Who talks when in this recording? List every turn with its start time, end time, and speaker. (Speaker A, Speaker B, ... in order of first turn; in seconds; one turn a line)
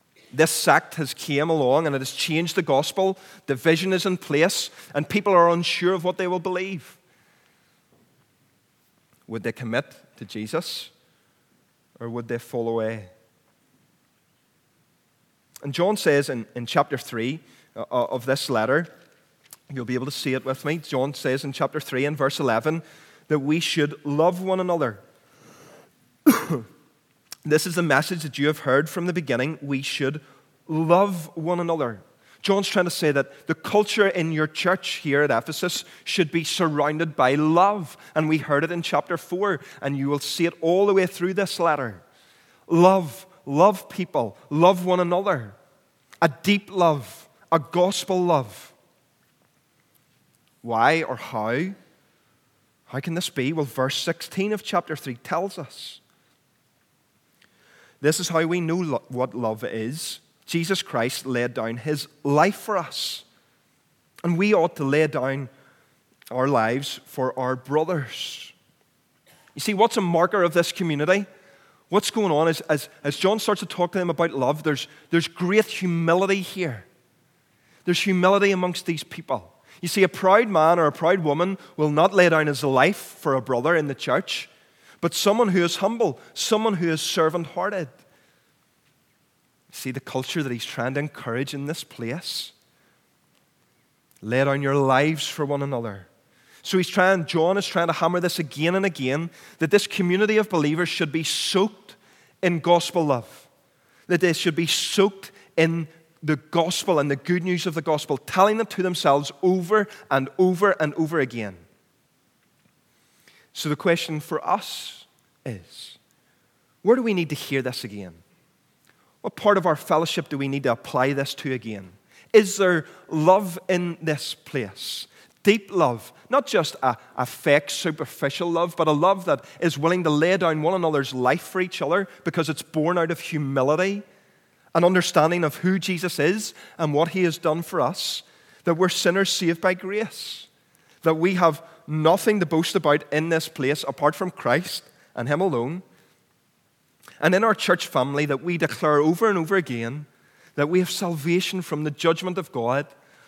Speaker A: 0.3-7.0
Speaker A: 9.3-10.9
Speaker A: 12.0-13.1
Speaker A: 15.6-18.9
Speaker A: 19.7-25.0
Speaker A: 26.2-26.7
Speaker A: 27.4-42.0
Speaker A: 42.7-45.5
Speaker A: 46.2-48.7
Speaker A: 50.6-51.8
Speaker A: 52.9-56.0
Speaker A: 58.0-63.2
Speaker A: 64.2-65.5
Speaker A: 66.3-68.5
Speaker A: 69.5-71.2
Speaker A: 71.9-76.8
Speaker A: 77.8-84.5
Speaker A: 85.0-87.9
Speaker A: 89.7-92.5
Speaker A: 94.2-96.1
Speaker A: 96.6-103.5
Speaker A: 104.1-111.6
Speaker A: 113.5-116.0
Speaker A: 116.8-118.2
Speaker A: 119.2-134.0
Speaker A: 134.7-140.5
Speaker A: 141.0-145.8
Speaker A: 147.2-152.9